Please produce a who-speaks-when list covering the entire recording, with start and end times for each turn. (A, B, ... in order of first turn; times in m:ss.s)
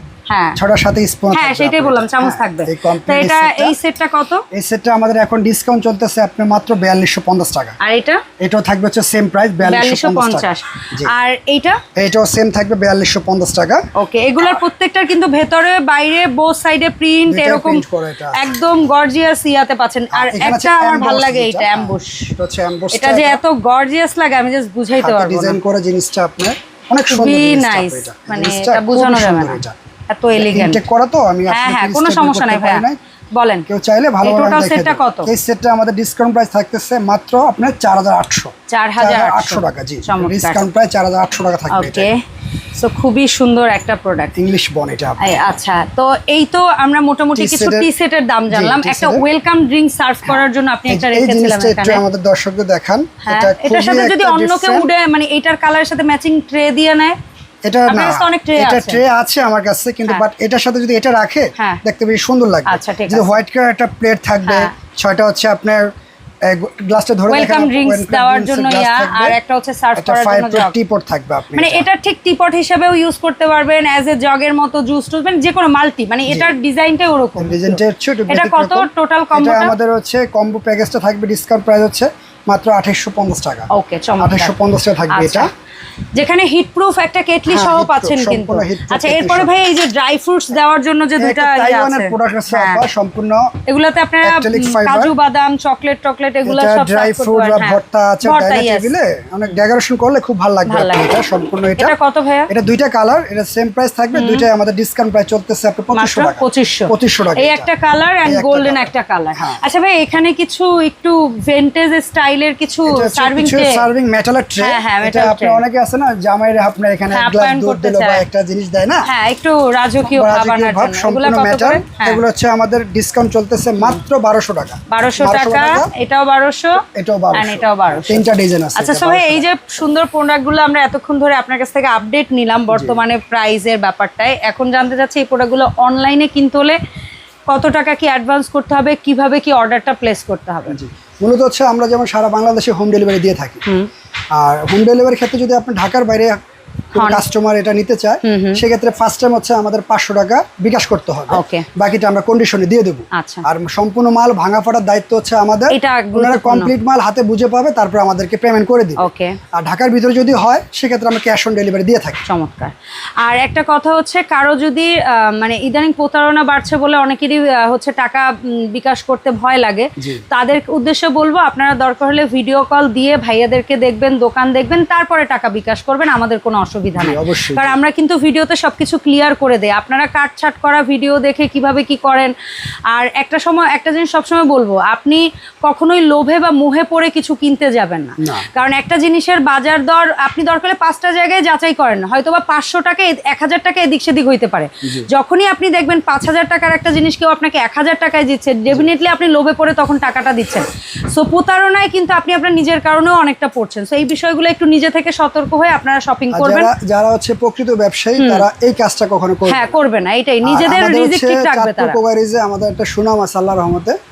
0:00.3-0:00.6 A
0:00.5-0:03.8 B
0:01.3-0:04.4 A
0:04.5-0:07.8 B
0:07.8-0:08.2 A
0:08.4-0:11.1 B
0:09.6-0:11.8 A
0:12.0-0:13.8 B
0:13.9-0:22.3 A
0:17.3-0:18.5 B
0:20.1-0:23.4 B
0:22.9-0:25.6 A
0:25.0-0:29.8 B
0:27.1-0:30.8 A
0:30.3-0:33.0 B
0:31.5-0:33.6 A
0:33.7-0:42.1 B
0:34.2-0:35.3 A
0:38.7-0:40.7 A
0:41.7-0:42.2 A
0:42.7-0:44.3 A
0:44.4-0:45.4 B
0:45.2-0:52.0 A
0:47.3-0:47.9 B
0:48.5-0:49.2 B
0:50.2-0:54.9 B
0:53.2-0:57.2 A
0:57.6-1:05.9 B
0:57.9-0:59.0 A
1:02.6-1:03.4 A
1:04.4-1:04.7 A
1:06.4-1:09.4 B
1:07.3-1:10.7 A
1:10.0-1:11.8 B
1:11.5-1:19.7 A
1:17.4-1:23.7 B
1:23.7-1:24.5 A
1:24.2-1:25.5 B
1:25.1-1:25.5 A
1:26.1-1:32.8 A
1:27.5-1:29.5 B
1:31.2-1:33.5 B
1:33.7-1:38.9 A
1:34.2-1:35.1 B
1:36.4-1:42.0 B
1:40.6-1:42.5 A
1:42.5-1:47.7 B
1:44.1-1:44.5 A
1:45.9-1:53.8 A
1:48.2-1:49.6 B
1:52.8-1:59.1 B
1:54.6-1:55.6 A
1:57.1-1:58.2 A
1:59.0-2:02.2 A
2:00.0-2:05.9 B
2:04.9-2:06.8 A
2:06.8-2:09.5 B
2:07.3-2:16.8 A
2:12.7-2:13.0 B
2:17.5-2:20.8 A
2:20.7-2:23.6 B
2:24.3-2:26.4 B
2:26.9-2:42.2 B
2:26.9-2:27.2 A
2:28.2-2:28.6 A
2:31.3-2:31.6 A
2:33.1-2:33.4 A
2:35.7-2:36.7 A
2:39.0-2:39.4 A
2:42.2-3:02.3 A
2:50.0-2:50.2 B
2:57.0-2:57.8 B
3:02.9-3:26.7 A
3:08.2-3:08.4 B
3:26.3-3:29.8 B
3:28.2-3:28.4 A
3:29.5-3:32.0 A
3:30.4-3:34.0 B